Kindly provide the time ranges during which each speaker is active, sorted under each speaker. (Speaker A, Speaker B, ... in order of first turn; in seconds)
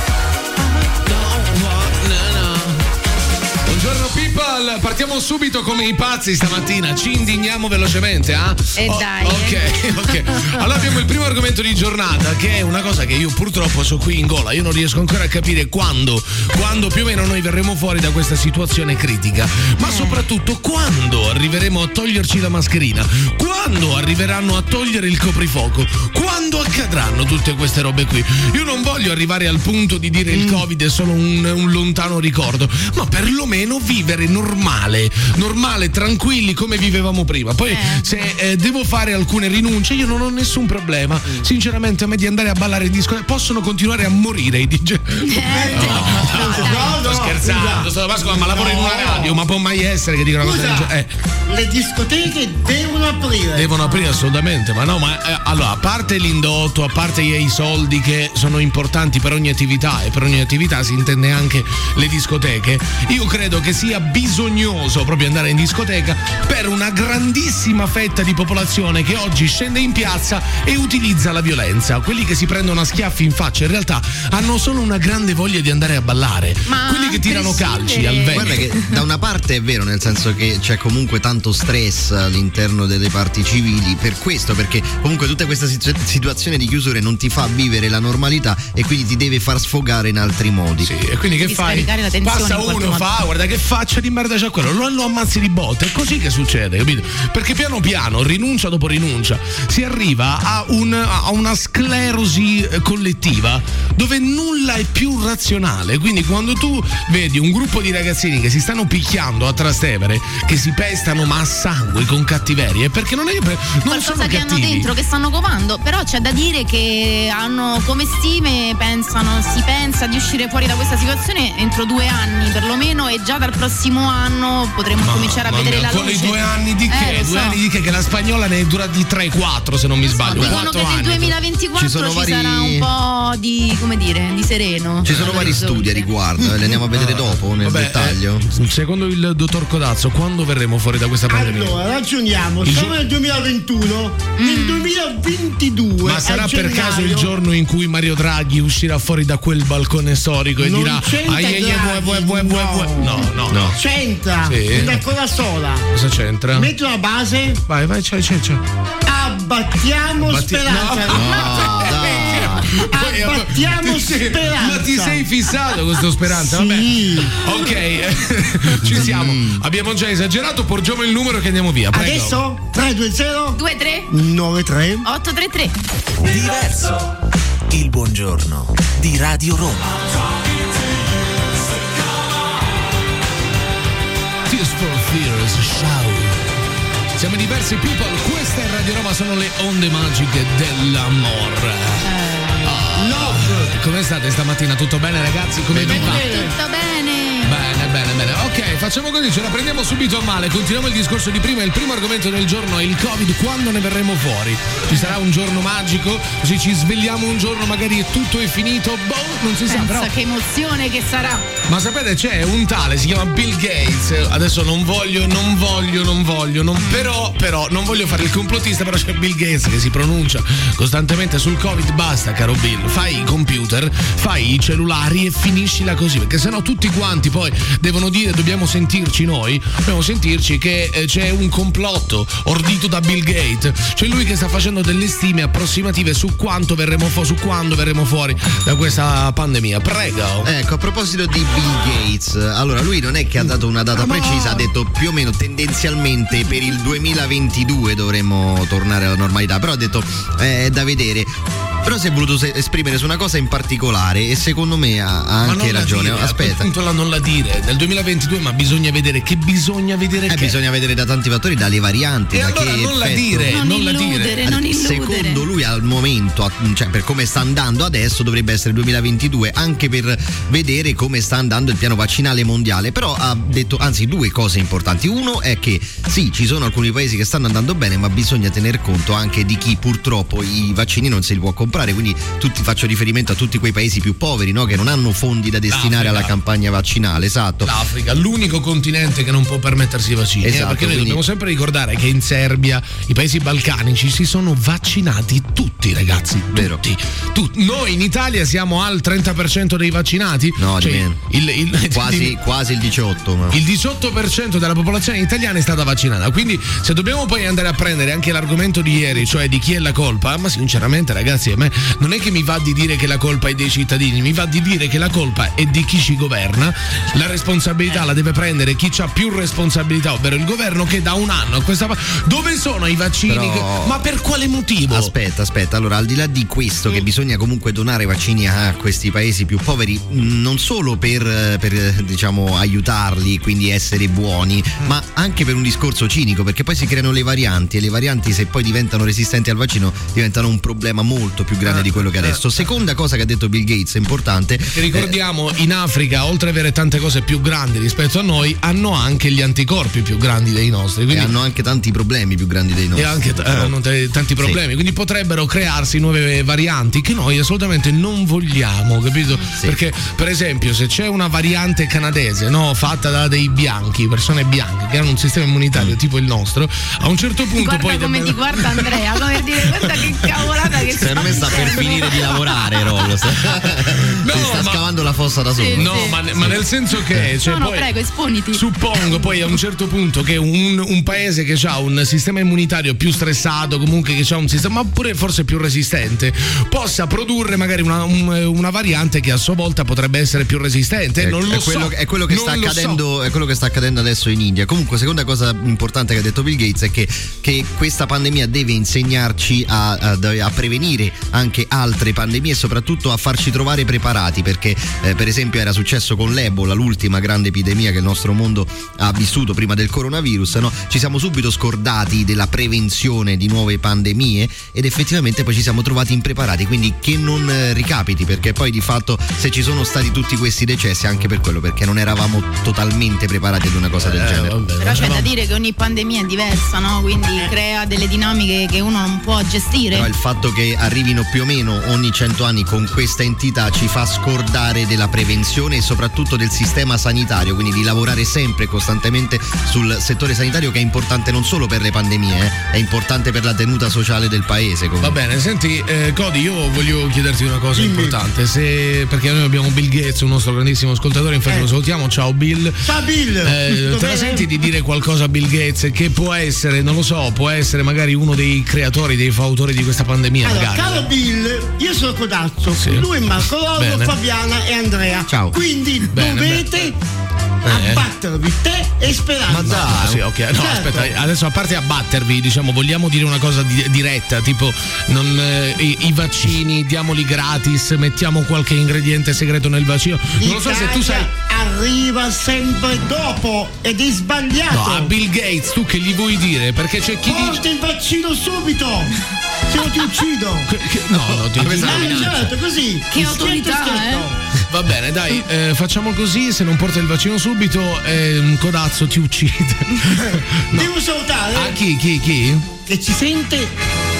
Speaker A: 0.8-2.8, 3.7-51.1, 53.5-78.6, 90.8-114.9, 125.0-131.3, 135.0-135.6, 136.8-141.8, 142.6-142.9, 146.0-153.8, 154.4-155.0, 155.9-156.7, 157.7-158.6, 160.2-172.4, 184.5-186.5, 187.2-192.1, 192.6-196.3, 197.4-210.1, 211.7-240.5, 255.4-260.6, 262.3-264.5, 285.7-286.3, 287.6-302.4, 303.5-325.1, 341.6-342.6, 344.7-351.3, 352.9-371.9, 373.5-374.8, 375.7-377.9, 378.5-393.0, 424.0-425.3, 445.0-452.8, 453.4-461.1, 462.7-463.1, 463.7-464.1, 466.1-466.9, 467.6-468.1, 469.5-481.3, 484.7-487.6, 490.7-492.5, 494.7-500.9, 501.5-502.6
Speaker B: 8.8-10.9, 19.8-20.2, 37.7-38.2, 45.2-47.0, 53.9-54.3, 76.7-78.8, 91.4-93.1, 113.9-127.6, 130.0-136.1, 144.3-144.9, 173.6-174.1, 175.0-175.7, 192.0-192.8, 195.8-197.6, 209.6-211.5, 216.8-217.1, 217.9-218.2, 263.5-265.4, 367.5-372.4, 375.6-376.2, 377.4-379.3, 424.8-430.1, 493.1-494.3
Speaker C: 30.3-30.6, 45.5-49.4, 50.4-50.9, 51.5-53.8, 141.3-147.3, 150.6-155.9, 156.5-157.6, 159.1-165.2, 166.3-167.6, 171.9-175.1, 192.9-193.7, 195.7-196.6, 447.7-448.2, 452.8-454.5, 460.4-467.0, 467.6-469.9, 470.5-471.1, 480.4-485.1, 487.2-490.7, 491.6-494.4, 500.7-501.8, 502.9-503.7
Speaker D: 78.3-90.9, 130.2-130.6, 131.8-132.9, 135.0-138.5, 153.5-153.8, 161.1-162.7, 168.8-169.6, 240.4-251.3, 251.8-256.7, 260.3-263.5, 264.4-287.7, 290.4-291.2, 296.5-296.8, 300.6-301.2, 301.9-303.6, 323.2-324.0, 324.8-345.1, 351.1-353.7, 370.9-377.3, 391.2-424.6, 429.9-445.2, 465.3-465.6, 469.5-470.2, 491.6-492.0
Speaker E: 176.2-177.1, 177.7-180.0